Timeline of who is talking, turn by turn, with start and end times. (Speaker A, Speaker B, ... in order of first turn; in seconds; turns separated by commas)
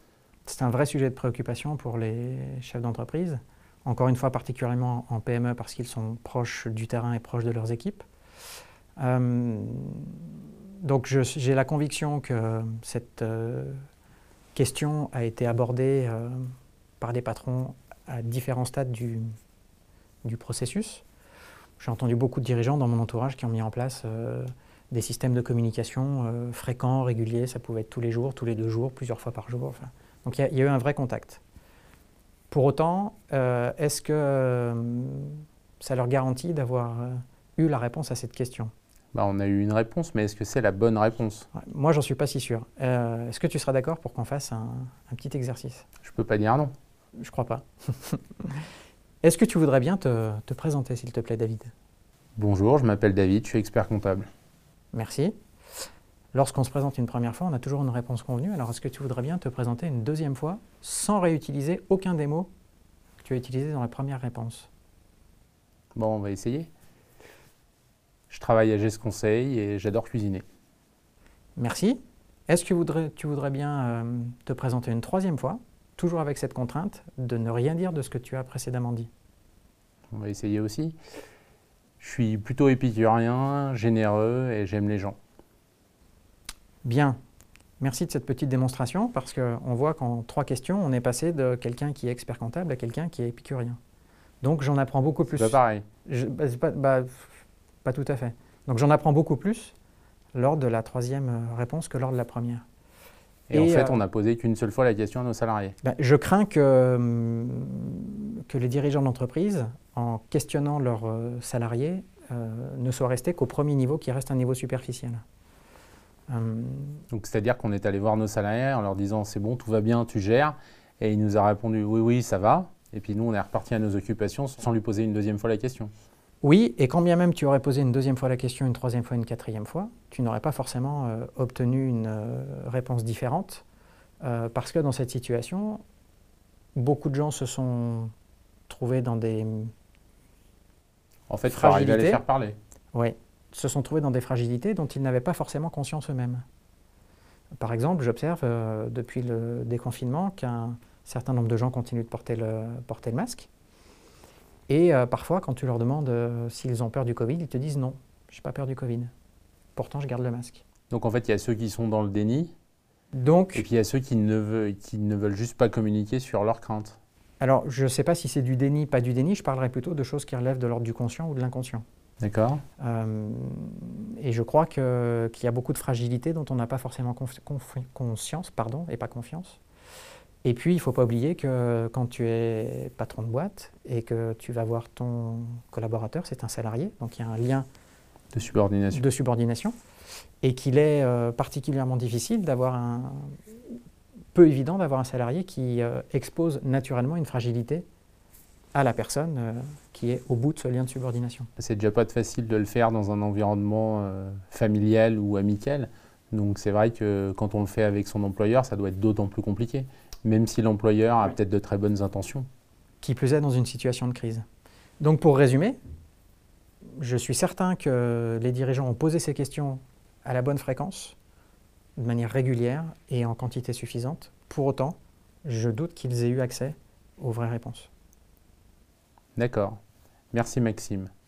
Speaker A: 0.5-8.0, Speaker A: 9.0-10.3, Speaker A: 10.8-13.8, Speaker A: 14.5-19.3, Speaker A: 20.2-21.0, Speaker A: 21.8-31.4, Speaker A: 32.5-38.7, Speaker B: 39.1-41.5, Speaker A: 41.5-45.9, Speaker B: 46.0-46.7, Speaker A: 47.2-48.6, Speaker A: 49.2-51.7, Speaker B: 52.4-54.3, Speaker A: 54.9-55.4, Speaker A: 56.3-62.5, Speaker A: 63.2-64.7, Speaker B: 65.9-66.7, Speaker B: 68.3-70.4, Speaker A: 71.6-79.1, Speaker B: 80.1-81.0, Speaker B: 82.0-85.2, Speaker A: 86.8-87.2, Speaker A: 87.8-93.8, Speaker A: 94.4-97.3, Speaker B: 95.3-95.8, Speaker A: 97.8-99.7, Speaker A: 100.3-102.6, Speaker B: 103.5-105.8, Speaker A: 103.5-104.0, Speaker A: 105.8-115.2, Speaker A: 116.3-117.0, Speaker B: 117.1-125.9, Speaker A: 126.4-133.6, Speaker A: 134.2-135.8, Speaker A: 136.7-138.1, Speaker A: 138.7-139.7, Speaker B: 141.3-142.6, Speaker A: 141.5-142.2, Speaker A: 142.9-146.4, Speaker A: 147.6-153.5, Speaker A: 154.7-159.1, Speaker A: 159.8-160.6, Speaker B: 160.9-162.5, Speaker A: 163.1-163.6, Speaker B: 163.5-167.0, Speaker A: 167.4-171.8, Speaker B: 172.2-172.6, Speaker A: 172.8-179.6, Speaker A: 180.4-187.7, Speaker B: 188.3-189.0, Speaker A: 188.9-189.7, Speaker A: 190.4-193.8, Speaker A: 194.3-197.8, Speaker A: 198.7-201.5, Speaker B: 201.6-212.5, Speaker A: 213.0-214.4, Speaker A: 215.0-215.8, Speaker A: 217.0-221.2, Speaker A: 222.0-227.9, Speaker B: 229.3-229.8, Speaker B: 230.3-231.1